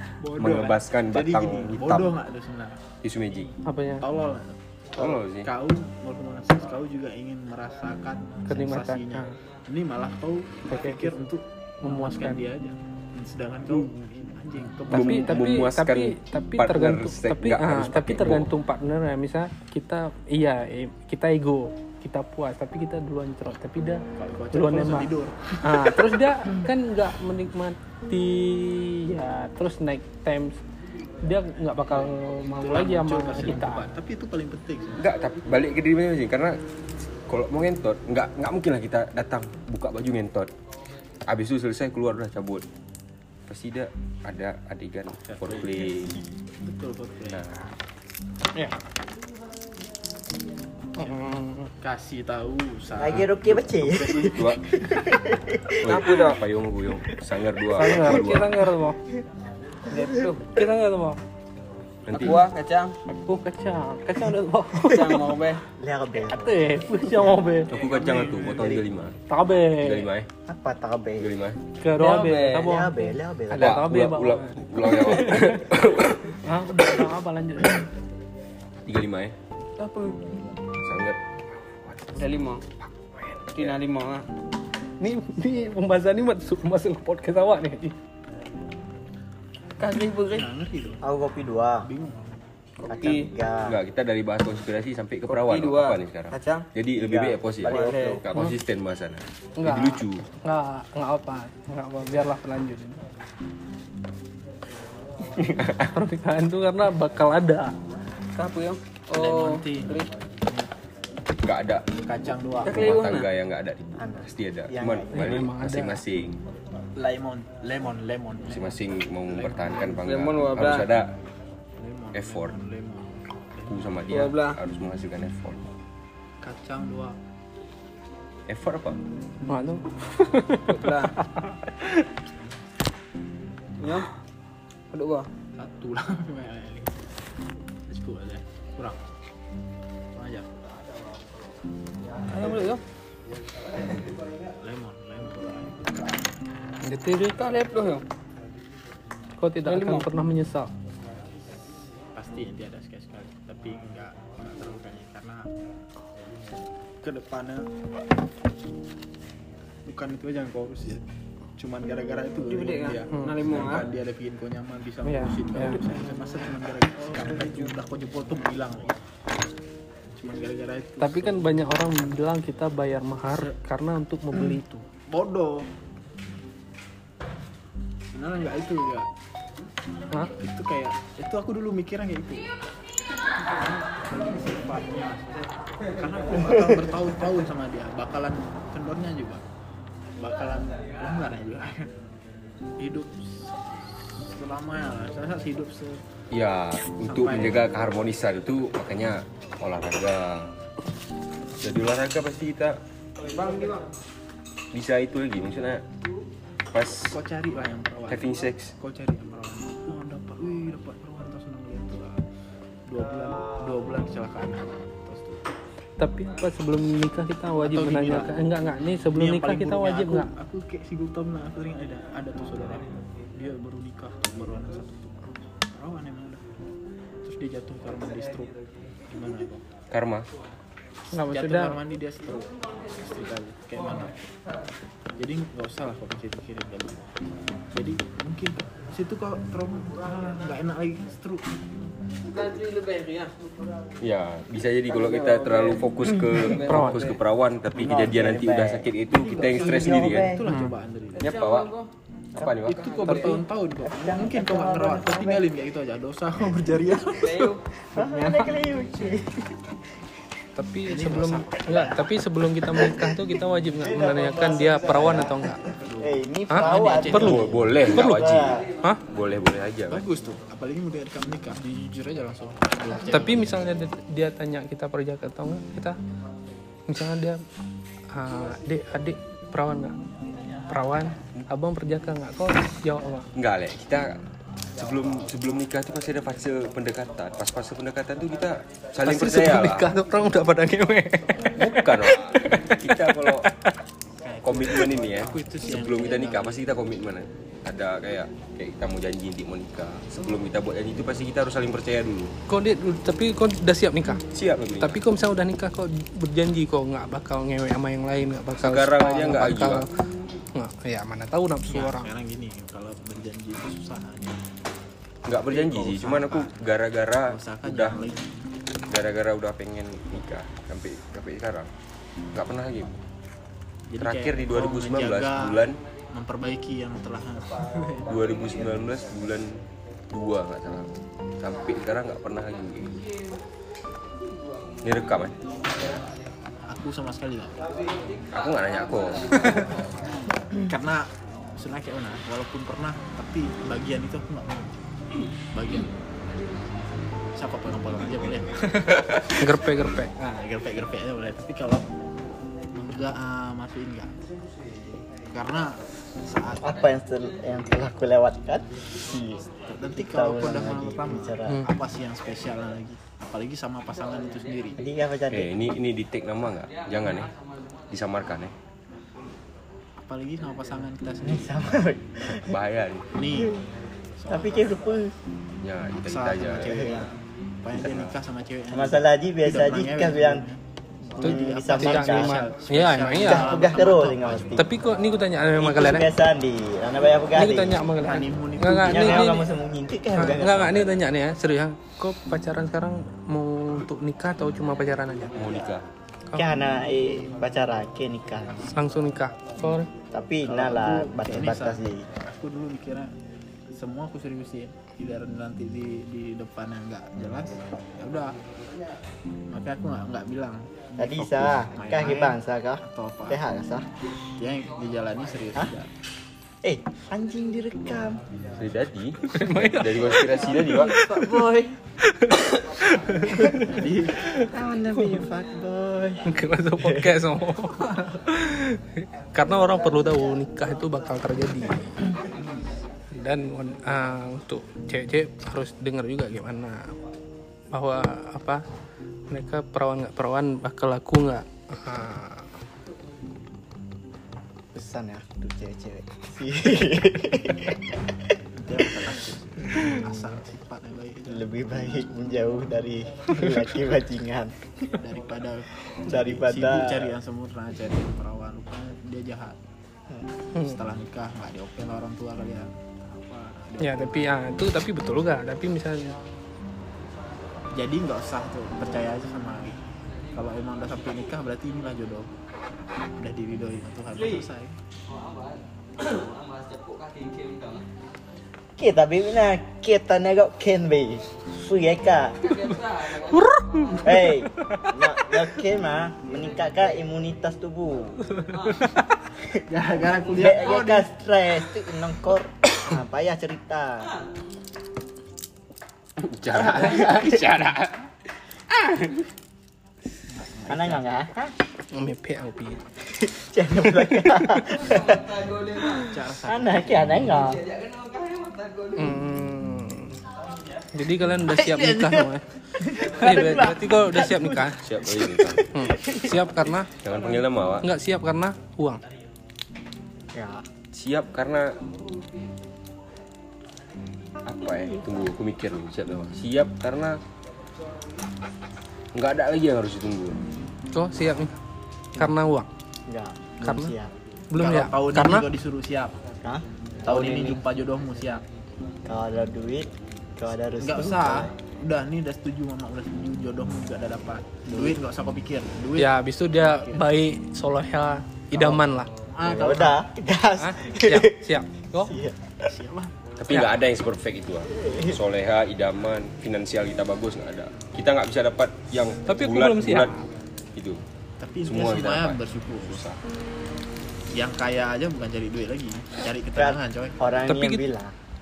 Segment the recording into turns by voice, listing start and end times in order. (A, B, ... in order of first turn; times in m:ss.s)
0:00.2-0:02.8 A
0:00.4-0:02.1 B
0:03.0-0:03.5 B
0:03.6-0:04.0 C
0:04.0-0:15.6 A
0:05.0-0:05.5 B
0:08.5-0:09.3 C
0:10.7-0:11.1 C
0:11.8-0:12.4 C
0:14.9-0:18.5 B
0:14.9-0:30.6 C
0:24.1-0:25.6 A
0:31.2-0:33.9 C
0:32.6-0:35.0 A
0:35.0-0:36.6 B
0:37.3-0:40.5 B
0:41.3-0:42.6 B
0:43.5-0:46.2 B
0:45.2-0:47.4 A
0:47.3-0:47.6 B
0:51.0-0:51.7 C
0:51.8-0:53.3 A
0:53.0-0:56.3 D
0:53.8-0:54.6 B
0:55.8-0:58.6 B
0:56.0-0:56.4 E
0:57.8-0:59.0 C
0:59.9-1:00.5 E
1:00.5-1:01.2 C
1:02.1-1:02.5 B
1:02.1-1:03.0 E
1:03.1-1:05.3 C
1:04.8-1:05.6 E
1:05.8-1:07.4 D
1:06.3-1:07.7 C
1:07.7-1:08.9 A
1:07.7-1:09.2 B
1:09.3-1:10.1 C
1:09.8-1:10.3 B
1:10.5-1:11.4 D
1:11.2-1:11.6 B
1:11.8-1:15.7 C
1:12.0-1:12.7 E
1:12.5-1:13.9 D
1:13.6-1:16.4 B
1:16.4-1:17.9 C
1:18.9-1:19.4 B
1:19.8-1:20.4 E
1:20.8-1:21.2 B
1:21.8-1:22.2 B
1:22.1-1:22.6 E
1:23.5-1:24.2 E
1:25.0-1:28.0 C
1:29.8-1:30.5 E
1:30.3-1:31.0 A
1:31.0-1:31.9 D
1:31.8-1:32.4 A
1:32.8-1:33.3 E
1:32.9-1:33.8 D
1:33.6-1:40.2 B
1:35.3-1:36.7 E
1:37.0-1:38.2 D
1:37.6-1:38.2 E
1:39.6-1:43.0 C
1:45.4-1:45.9 B
1:45.9-1:47.7 C
1:48.3-1:50.1 E
1:49.1-1:50.7 A
1:51.4-1:51.9 B
1:52.0-1:52.9 A
1:52.6-1:53.3 E
1:52.6-1:56.4 B
1:54.0-1:55.5 D
1:55.1-1:56.0 C
1:57.0-2:00.0 A
1:58.5-2:01.1 B
1:59.9-2:00.9 E
2:01.8-2:04.1 A
2:02.1-2:02.6 B
2:03.7-2:05.6 B
2:04.1-2:04.6 E
2:06.4-2:07.2 A
2:08.5-2:09.0 B
2:09.5-2:12.0 C
2:10.7-2:11.1 E
2:13.8-2:14.1 E
2:14.9-2:15.3 E
2:15.6-2:17.0 A
2:17.9-2:19.0 A
2:20.1-2:20.5 A
2:22.3-2:22.8 E
2:24.6-2:26.2 A
2:26.9-2:27.4 C
2:27.2-2:28.0 E
2:29.4-2:30.7 C
2:29.6-2:30.1 E
2:32.1-2:35.5 A
2:37.0-2:37.7 A
2:39.9-2:41.0 A
2:41.6-2:48.9 A
2:42.5-2:43.9 E
2:45.0-2:45.8 C
2:50.1-2:51.4 A
2:51.0-2:54.8 C
2:53.3-2:53.6 A
2:55.1-2:55.7 A
2:58.1-2:59.1 A
3:00.4-3:02.4 A
3:03.5-3:09.4 A
3:10.2-3:11.9 A
3:12.8-3:16.0 A
3:16.3-3:20.5 B
3:17.0-3:17.6 A
3:21.6-3:22.8 B
3:24.7-3:25.8 B
3:26.7-3:27.1 B
3:27.1-3:32.2 A
3:28.1-3:28.7 B
3:32.9-3:35.5 A
3:36.0-3:40.3 C
3:37.6-3:38.3 A
3:39.1-3:46.4 A
3:47.2-3:48.5 A
3:49.1-3:49.6 A
3:49.9-3:50.2 B
3:51.1-3:51.8 C
3:51.2-3:54.3 A
3:55.2-3:57.0 A
3:57.7-4:02.0 A
4:02.3-4:03.3 E
4:04.0-4:10.3 B
4:05.0-4:05.8 E
4:06.4-4:07.2 E
4:06.6-4:07.0 C
4:07.8-4:10.5 D
4:09.1-4:11.3 A
4:10.5-4:10.7 C
4:11.2-4:11.7 B
4:11.2-4:11.9 E
4:12.4-4:13.4 B
4:12.6-4:18.5 A
4:12.8-4:13.4 E
4:13.9-4:15.4 D
4:17.2-4:17.6 E
4:17.9-4:19.8 D
4:20.6-4:25.6 C
4:20.9-4:22.1 A
4:22.7-4:28.7 D
4:25.7-4:27.5 A
4:26.5-4:27.4 C
4:27.1-4:30.0 B
4:27.9-4:28.3 C
4:29.9-4:33.7 A
4:33.1-4:36.0 C
4:36.9-4:37.4 C
4:38.1-4:40.0 C
4:40.7-4:43.3 C
4:43.4-4:44.2 B
4:44.8-4:49.9 B
4:49.0-4:53.7 C
4:51.4-4:53.5 B
4:54.2-4:56.6 A
4:54.4-5:02.3 B
5:02.5-5:04.2 C
5:04.3-5:05.0 B
5:04.8-5:09.9 C
5:08.6-5:09.9 B
5:10.6-5:12.1 C
5:11.7-5:14.4 A
5:15.2-5:18.0 B
5:15.5-5:16.6 A
5:17.3-5:18.5 A
5:18.9-5:21.7 B
5:22.3-5:23.0 B
5:23.9-5:28.1 A
5:24.0-5:25.8 B
5:28.1-5:33.0 B
5:34.8-5:35.4 B
5:36.6-5:37.6 A
5:38.3-5:39.7 B
5:40.5-5:44.8 A
5:45.5-5:45.9 A
5:47.3-5:49.4 A
5:49.4-5:50.4 C
5:50.3-5:51.8 A
5:52.7-5:54.1 A
5:55.3-5:56.8 A
5:56.6-6:01.6 D
5:59.7-6:04.8 A
6:04.8-6:05.5 D
6:05.3-6:07.3 B
6:07.9-6:08.5 B
6:10.0-6:11.7 A
6:11.2-6:12.6 D
6:12.4-6:13.1 B
6:13.1-6:13.6 A
6:13.3-6:13.6 D
6:14.2-6:14.7 A
6:14.3-6:15.2 D
6:15.6-6:17.0 B
6:16.0-6:20.6 A
6:16.7-6:17.1 D
6:17.8-6:18.2 B
6:18.7-6:20.4 D
6:21.1-6:22.4 D
6:21.1-6:24.7 A
6:21.2-6:23.7 C
6:23.2-6:24.7 D
6:24.6-6:26.1 C
6:25.6-6:27.8 D
6:27.4-6:29.4 C
6:28.0-6:29.4 A
6:28.9-6:31.0 D
6:30.1-6:35.4 C
6:35.4-6:35.8 B
6:36.4-6:38.7 D
6:38.7-6:39.9 C
6:40.1-6:42.1 D
6:40.4-6:43.1 A
6:43.7-6:48.3 A
6:49.5-6:53.4 A
6:51.0-6:53.9 D
6:54.4-6:55.9 A
6:56.6-6:58.2 D
6:58.6-7:01.0 B
6:59.3-7:01.4 C
7:00.9-7:01.7 D
7:02.0-7:03.8 C
7:03.6-7:04.2 A
7:04.4-7:07.1 D
7:06.3-7:11.9 C
7:09.4-7:10.5 D
7:13.1-7:16.9 C
7:17.7-7:18.6 C
7:19.3-7:22.5 C
7:24.7-7:28.4 D
7:28.6-7:31.4 A
7:29.6-7:30.4 D
7:31.3-7:34.6 D
7:34.9-7:39.6 A
7:36.0-7:37.1 D
7:40.6-7:44.3 A
7:43.8-7:46.2 C
7:47.7-7:52.3 A
7:53.2-7:54.8 A
7:58.8-8:02.7 D
8:03.2-8:04.9 C
8:04.0-8:08.2 D
8:09.7-8:11.1 A
8:10.3-8:14.1 D
8:16.2-8:17.9 B
8:16.5-8:17.5 D
8:20.3-8:21.0 A
8:20.7-8:21.5 D
8:21.9-8:22.8 C
8:23.1-8:27.6 D
8:24.2-8:24.6 C
8:26.1-8:27.1 A
8:28.9-8:30.2 C
8:30.9-8:34.8 C
8:31.6-8:32.3 A
8:32.8-8:36.5 D
8:34.8-8:35.7 B
8:35.7-8:36.9 C
8:37.0-8:37.9 B
8:37.8-8:39.0 C
8:40.3-8:40.6 D
8:40.9-8:41.8 B
8:44.4-8:47.2 B
8:49.1-8:50.4 B
8:50.9-8:51.6 C
8:52.2-8:52.7 C
8:53.1-8:54.1 D
8:53.6-8:53.9 C
8:54.5-8:55.4 C
8:54.6-8:56.1 A
8:56.4-8:57.4 D
8:57.0-8:58.4 A
8:59.1-9:01.5 D
9:00.8-9:07.0 A
9:04.7-9:05.0 D
9:06.0-9:09.1 C
9:09.3-9:10.0 A
9:09.4-9:12.7 D
9:10.6-9:12.1 C
9:12.6-9:13.2 A
9:13.4-9:20.1 B
9:14.7-9:15.2 D
9:19.3-9:20.2 C
9:20.8-9:21.0 B
9:21.4-9:23.1 A
9:21.6-9:23.2 B
9:24.3-9:27.2 A
9:26.6-9:28.1 D
9:27.5-9:27.8 C